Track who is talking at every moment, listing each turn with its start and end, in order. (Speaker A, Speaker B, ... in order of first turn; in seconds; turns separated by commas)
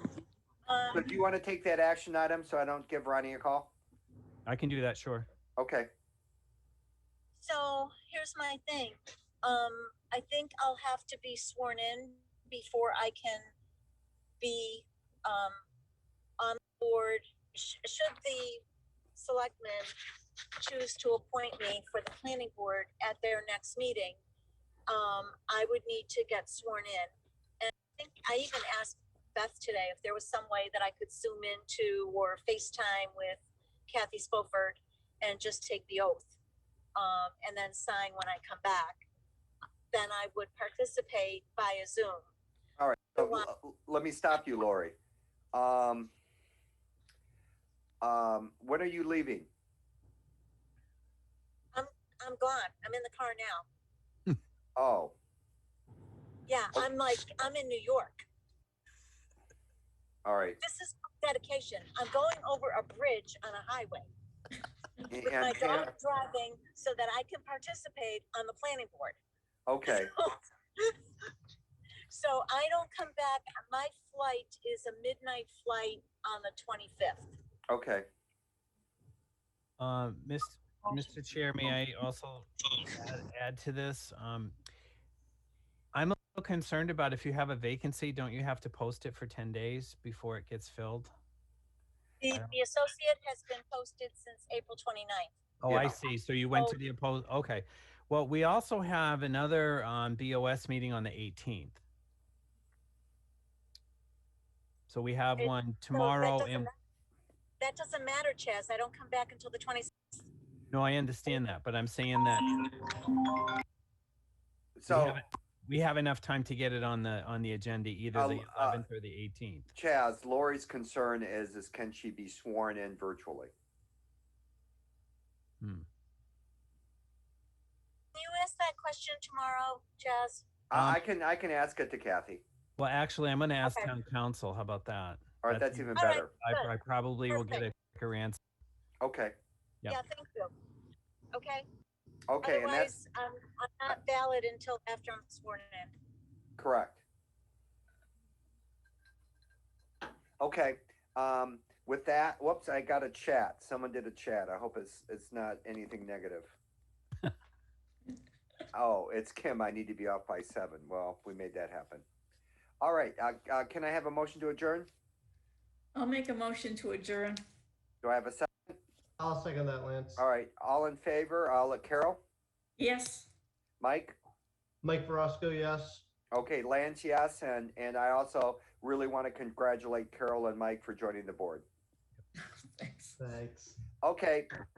Speaker A: 0.7-1.1, Speaker B: 0.9-3.7, Speaker C: 4.5-5.2, Speaker B: 5.6-5.9, Speaker A: 7.3-13.4, Speaker A: 14.4-15.6, Speaker A: 16.4-18.6, Speaker A: 19.1-19.9, Speaker A: 20.6-24.2, Speaker A: 24.9-36.3, Speaker A: 37.0-39.0, Speaker A: 39.9-42.3, Speaker B: 42.8-45.0, Speaker A: 43.1-43.5, Speaker B: 45.5-46.1, Speaker B: 48.0-49.5, Speaker A: 51.7-53.6, Speaker B: 54.8-55.1, Speaker A: 56.5-58.2, Speaker B: 60.2-60.6, Speaker A: 60.6-64.1, Speaker B: 65.1-65.9, Speaker A: 65.2-69.2, Speaker B: 69.7-70.1, Speaker A: 69.9-71.0, Speaker A: 72.1-77.3, Speaker B: 77.7-78.1, Speaker C: 79.8-84.5, Speaker C: 85.9-91.1, Speaker A: 92.2-95.3, Speaker C: 95.6-101.8, Speaker B: 95.7-96.0, Speaker A: 96.5-96.8, Speaker C: 104.9-106.7, Speaker A: 105.4-106.7, Speaker A: 107.6-109.9, Speaker C: 110.7-112.7, Speaker B: 114.8-115.2, Speaker C: 114.9-119.7, Speaker B: 118.1-118.8, Speaker B: 119.7-123.5, Speaker C: 125.6-125.8, Speaker A: 128.1-130.4, Speaker B: 130.7-132.4, Speaker C: 130.7-131.0, Speaker C: 132.8-138.4, Speaker A: 133.6-133.9, Speaker B: 135.4-136.3, Speaker A: 135.9-136.7, Speaker A: 137.3-137.7, Speaker B: 139.0-139.3, Speaker A: 139.9-140.5, Speaker A: 141.3-141.7, Speaker B: 142.3-142.9, Speaker A: 142.4-145.9, Speaker B: 146.6-147.0, Speaker B: 150.4-156.5, Speaker B: 158.7-162.0, Speaker B: 162.8-164.9, Speaker D: 165.9-167.4, Speaker B: 168.0-168.8, Speaker E: 169.2-170.2, Speaker B: 170.2-172.2, Speaker D: 172.8-173.3, Speaker B: 173.8-174.2, Speaker E: 174.8-176.0, Speaker B: 176.3-181.7, Speaker D: 182.8-183.2, Speaker E: 183.2-183.8, Speaker B: 184.0-184.5